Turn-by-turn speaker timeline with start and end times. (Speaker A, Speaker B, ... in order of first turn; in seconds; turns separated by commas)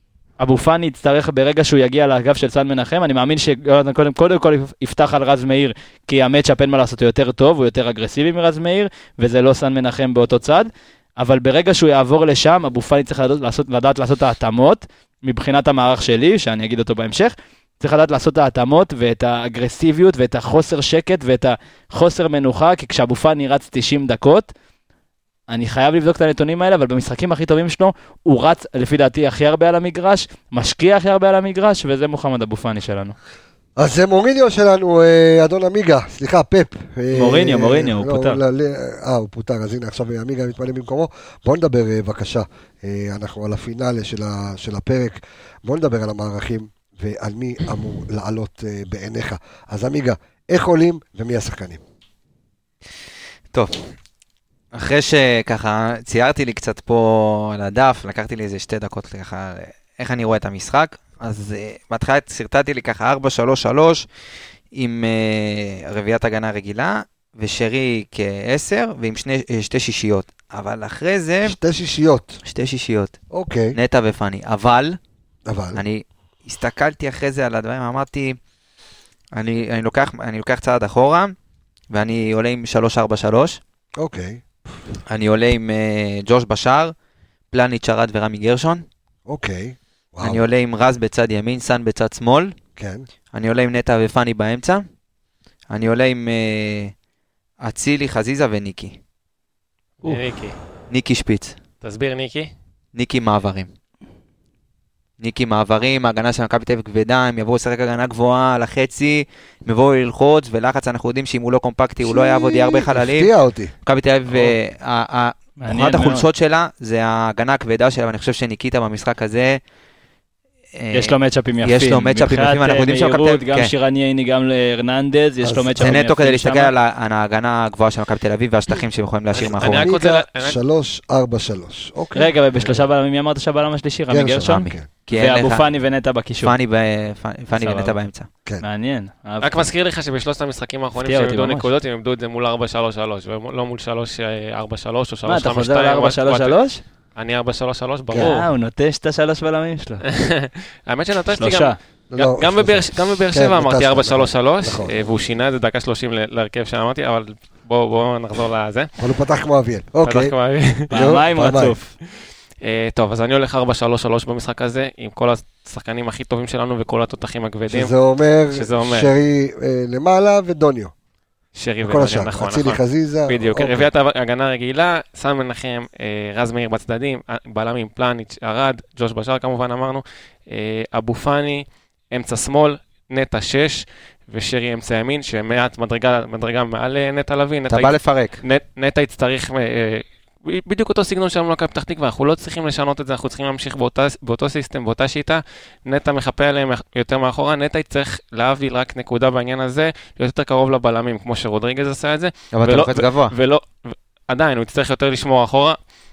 Speaker A: 0.4-24.5, Speaker A: 25.5-33.1, Speaker B: 33.8-51.8, Speaker A: 37.1-38.4, Speaker C: 53.5-53.8, Speaker C: 54.7-64.0, Speaker C: 64.7-71.5, Speaker B: 71.4-72.4, Speaker C: 72.4-73.2, Speaker B: 73.3-73.8, Speaker C: 73.7-75.0, Speaker B: 75.5-75.8, Speaker C: 75.7-78.4, Speaker C: 79.3-81.3, Speaker C: 81.9-83.6, Speaker B: 84.0-84.4, Speaker C: 85.1-86.9, Speaker C: 87.5-88.8, Speaker B: 89.3-90.4, Speaker C: 90.2-92.5, Speaker B: 92.8-93.0, Speaker C: 93.3-94.8, Speaker C: 95.7-96.9, Speaker C: 97.6-99.0, Speaker D: 100.0-100.5, Speaker C: 100.9-101.6, Speaker D: 101.8-102.5, Speaker C: 102.9-103.7, Speaker C: 105.2-113.3, Speaker B: 112.0-113.7, Speaker C: 113.8-119.6, Speaker A: 115.6-116.3, Speaker C: 120.8-123.7, Speaker A: 120.9-126.7, Speaker B: 125.4-126.0, Speaker C: 125.8-129.9, Speaker D: 129.3-130.6, Speaker B: 129.4-132.8, Speaker A: 132.1-136.6, Speaker B: 134.1-134.9, Speaker C: 134.4-135.7, Speaker C: 136.4-138.3, Speaker A: 137.5-137.9, Speaker A: 138.6-139.7, Speaker D: 139.4-146.6, Speaker A: 141.0-141.7, Speaker A: 145.2-146.8, Speaker D: 147.1-148.4, Speaker A: 148.1-150.0, Speaker D: 150.1-158.9, Speaker A: 151.3-151.8, Speaker B: 152.1-154.9, Speaker B: 159.0-160.3, Speaker D: 160.0-160.9, Speaker B: 160.9-161.8, Speaker A: 160.9-161.9, Speaker D: 162.6-167.9, Speaker B: 167.7-170.9, Speaker D: 168.5-169.1, Speaker D: 171.5-205.8, Speaker B: 171.8-173.9, Speaker B: 187.7-188.4, Speaker C: 202.5-203.3